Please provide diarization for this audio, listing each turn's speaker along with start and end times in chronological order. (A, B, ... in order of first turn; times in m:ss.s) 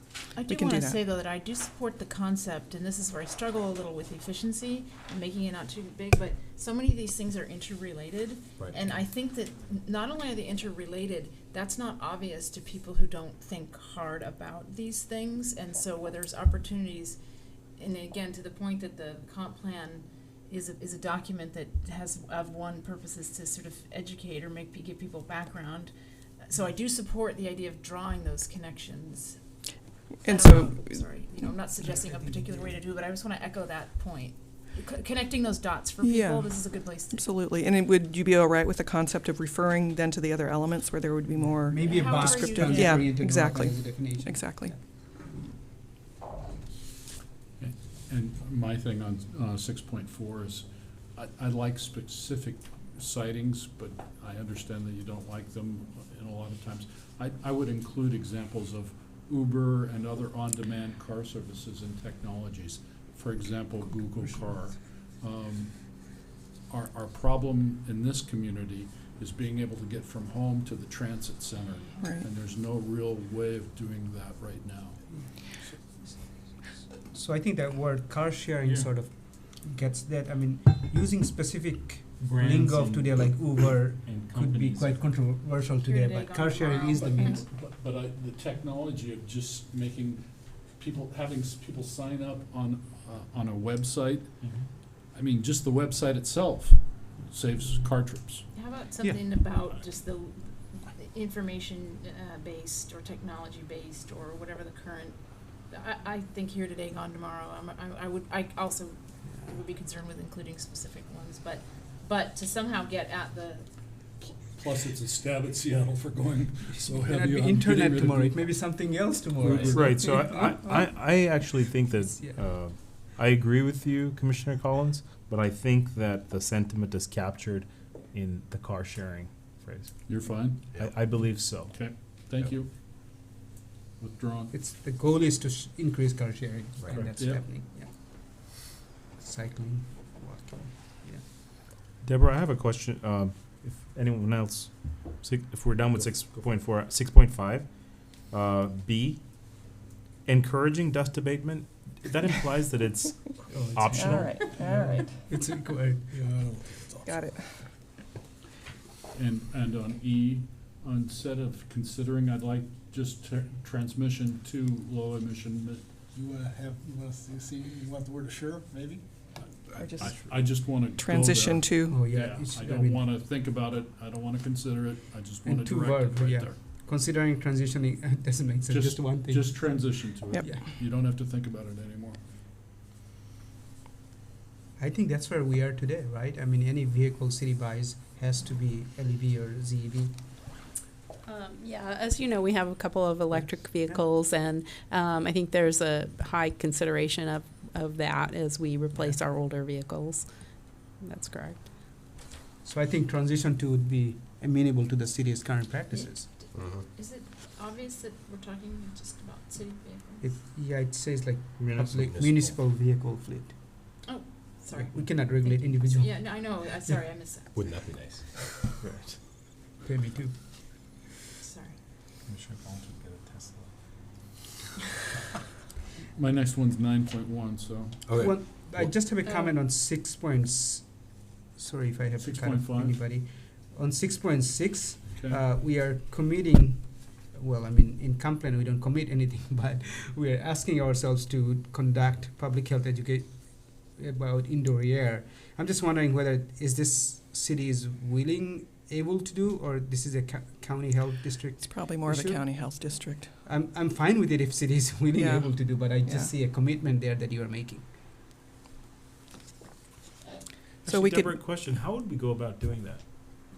0:00.3-0:17.2 A
0:00.5-0:01.0 B
0:17.8-0:29.4 A
0:30.2-0:31.0 B
0:30.2-0:37.2 A
0:32.2-0:32.6 C
0:36.0-0:44.7 B
0:41.7-0:44.8 C
0:41.8-0:43.2 A
0:47.6-1:16.2 D
1:12.0-1:12.2 B
1:17.1-1:27.4 C
1:22.2-1:25.1 E
1:25.8-1:27.4 A
1:26.9-1:34.4 D
1:34.4-1:34.7 E
1:35.1-1:38.4 D
1:38.5-1:53.7 A
1:54.2-1:58.5 D
1:57.0-2:00.9 C
1:59.3-2:00.0 D
1:59.7-2:09.9 E
2:02.0-2:02.4 C
2:10.0-2:10.7 D
2:10.7-2:11.7 E
2:11.7-2:12.8 D
2:14.0-2:14.5 D
2:14.5-2:17.9 C
2:16.9-2:17.4 D
2:19.2-2:21.2 C
2:22.0-2:29.7 E
2:30.2-2:34.4 E
2:33.5-2:36.1 C
2:33.9-2:35.1 B
2:36.2-2:37.0 F
2:37.0-2:37.5 B
2:39.1-2:45.9 D
2:46.1-2:49.1 F
2:49.7-2:56.6 D
2:49.8-2:50.2 B
2:50.8-2:52.0 B
2:51.9-2:53.0 C
2:55.4-3:00.6 C
2:58.7-3:02.2 D
3:04.8-3:10.1 C
3:11.2-3:20.3 G
3:13.4-3:14.0 C
3:21.0-3:21.7 G
3:22.6-3:26.2 C
3:26.0-3:30.3 A
3:30.2-3:33.6 C
3:31.8-3:32.5 H
3:34.0-3:37.6 A
3:34.9-3:36.2 C
3:37.7-3:38.6 H
3:38.8-3:39.2 E
3:39.8-3:40.3 C
3:41.4-3:41.8 A
3:42.2-3:43.7 E
3:46.1-3:48.1 D
3:48.1-3:48.4 H
3:48.2-4:12.8 C
3:52.2-3:53.0 D
3:55.1-3:55.4 D
4:11.6-4:13.3 B
4:13.4-4:17.9 C
4:15.1-4:16.3 B
4:20.8-4:23.0 E
4:20.9-4:21.4 B